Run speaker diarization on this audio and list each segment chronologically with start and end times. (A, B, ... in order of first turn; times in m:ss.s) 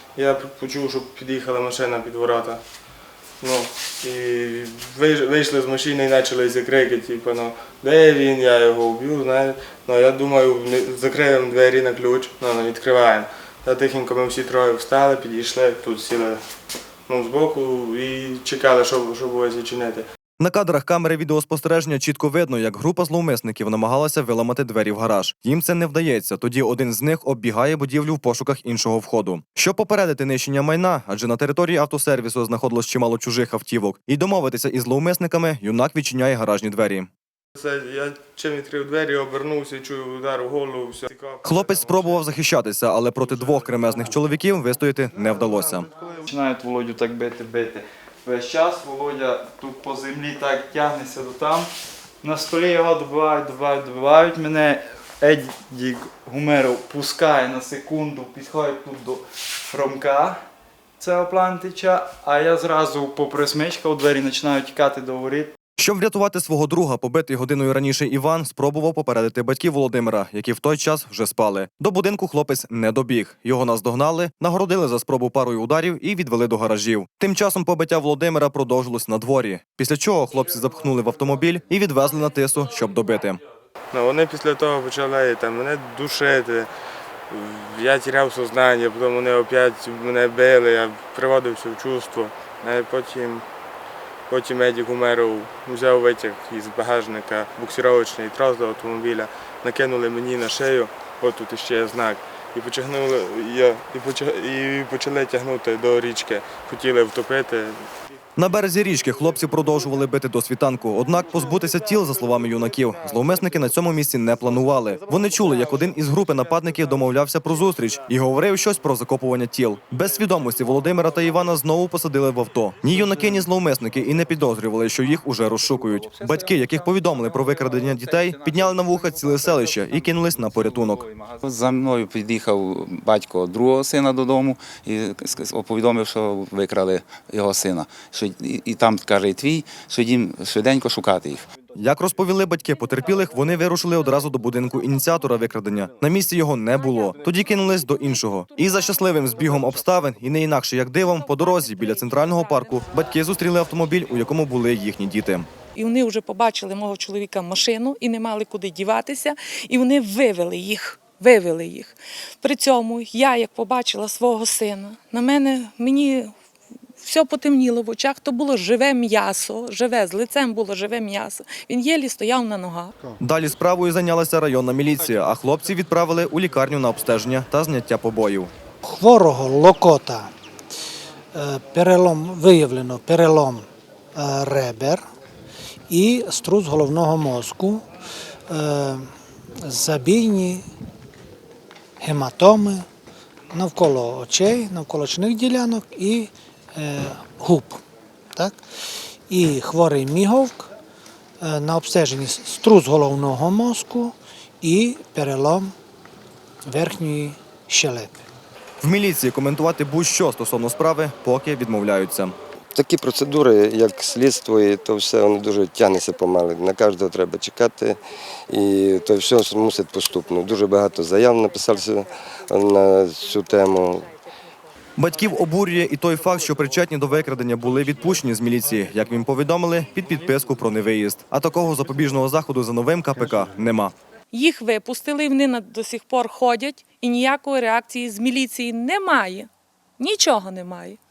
0:00.1-0:02.6 A
0:03.4-0:16.4 A
0:17.1-0:20.0 A
0:20.4-0:37.1 B
0:37.5-0:42.2 A
0:41.4-0:45.9 B
0:45.2-0:46.2 A
0:46.2-0:51.7 C
0:52.2-1:00.4 C
1:01.0-1:05.5 C
1:05.8-1:23.4 B
1:23.9-1:26.7 A
1:27.3-1:33.4 A
1:34.3-1:47.8 A
1:48.4-2:11.0 B
2:02.9-2:03.4 D
2:05.4-2:21.5 D
2:21.7-2:35.5 B
2:31.1-2:33.5 E
2:35.7-2:46.3 E
2:47.0-2:52.9 E
2:53.2-2:58.5 B
2:58.8-3:00.3 F
3:01.3-3:05.0 F
3:05.9-3:07.8 F
3:08.5-3:09.0 F
3:09.6-3:10.6 F
3:12.0-3:12.8 F
3:13.5-3:17.8 F
3:19.3-3:20.7 F
3:21.4-3:25.7 F
3:26.6-3:28.1 F
3:28.8-3:32.4 B
3:32.7-3:38.0 G
3:38.5-3:44.1 G
3:45.0-3:53.9 B
3:54.3-3:59.5 E
4:00.0-4:01.0 E